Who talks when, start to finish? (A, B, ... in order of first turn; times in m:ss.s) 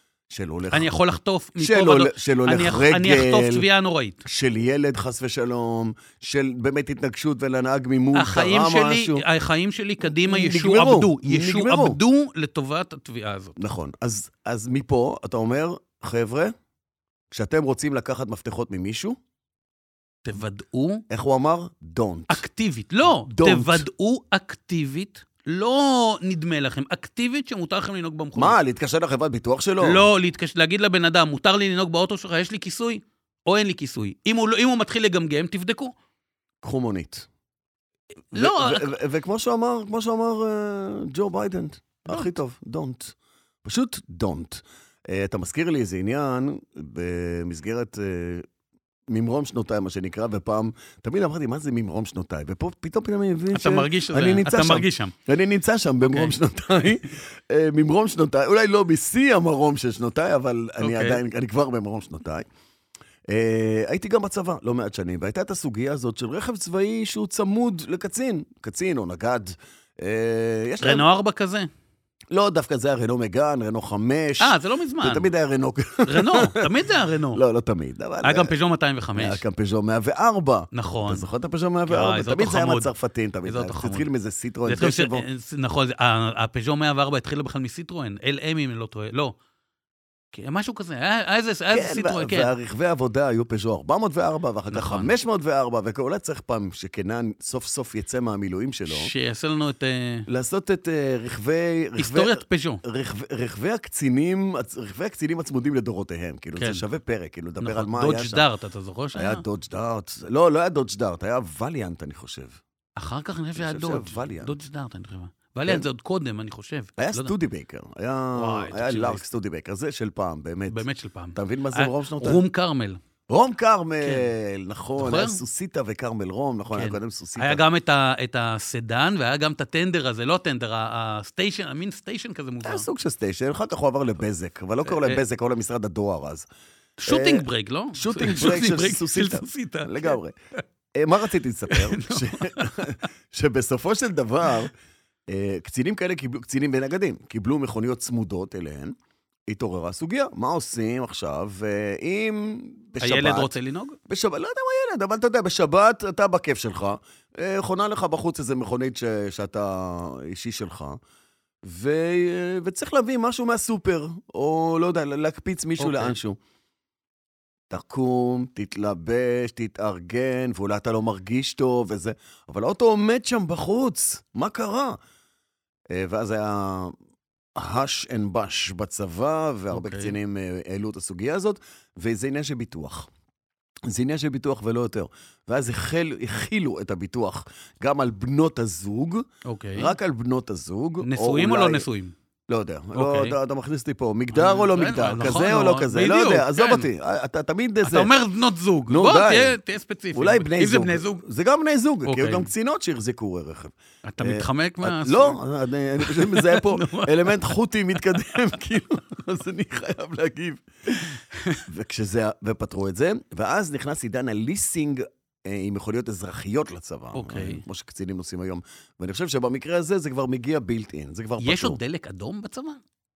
0:00.3-0:00.9 A
0:00.7-0:04.2 B
0:01.6-0:03.7 A
0:04.2-0:09.2 A
0:08.1-0:13.6 B
0:10.0-0:12.0 A
0:13.6-0:16.5 A
0:17.3-0:19.2 A
0:20.2-0:21.0 B
0:21.1-0:22.4 A
0:22.3-0:28.6 B
0:23.1-0:23.9 A
0:28.4-0:30.1 A
0:29.8-0:35.9 B
0:36.6-0:37.3 A
0:38.3-0:38.9 B
0:38.3-0:48.5 A
0:42.1-0:42.4 B
0:49.1-1:02.4 A
0:53.5-0:55.1 B
0:56.1-0:56.4 B
1:00.8-1:01.2 B
1:03.3-1:11.0 A
1:10.8-1:11.7 B
1:12.3-1:16.7 A
1:14.4-1:15.3 B
1:16.0-1:17.4 B
1:17.3-1:18.5 A
1:18.2-1:19.4 B
1:19.2-1:25.2 A
1:20.7-1:21.3 B
1:21.9-1:22.9 B
1:23.5-1:24.1 B
1:24.7-1:29.4 B
1:30.3-1:32.5 B
1:31.7-1:39.1 A
1:34.7-1:35.1 B
1:38.9-1:40.3 B
1:40.3-1:48.4 A
1:42.0-1:42.8 B
1:46.6-1:46.8 B
1:47.6-1:49.4 B
1:49.2-1:52.6 A
1:53.0-1:57.3 B
1:53.6-1:54.5 A
1:57.0-2:00.8 A
1:58.4-1:59.2 B
2:00.7-2:03.0 B
2:01.3-2:02.4 A
2:03.3-2:07.6 A
2:04.0-2:04.3 B
2:05.0-2:05.4 B
2:06.7-2:12.9 B
2:12.6-2:16.5 A
2:14.9-2:15.2 B
2:17.0-2:20.2 B
2:17.1-2:20.4 A
2:20.9-2:24.7 A
2:21.7-2:22.9 B
2:25.3-2:28.9 A
2:29.5-2:33.5 A
2:33.0-2:34.0 B
2:34.1-2:41.0 A
2:41.6-2:46.4 A
2:45.8-2:46.2 B
2:47.7-2:55.0 A
2:55.9-2:57.0 A
2:57.6-3:03.1 A
2:59.7-3:00.1 B
3:03.9-3:11.9 A
3:09.4-3:09.9 B
3:11.0-3:12.1 B
3:12.5-3:18.1 A
3:12.9-3:13.4 B
3:14.3-3:16.9 B
3:17.8-3:21.2 B
3:18.9-3:19.6 A
3:20.1-3:31.1 A
3:22.0-3:22.5 B
3:24.1-3:25.4 B
3:26.0-3:27.4 B
3:31.0-3:31.6 B
3:31.7-3:41.8 A
3:37.1-3:37.6 B
3:41.4-3:42.8 B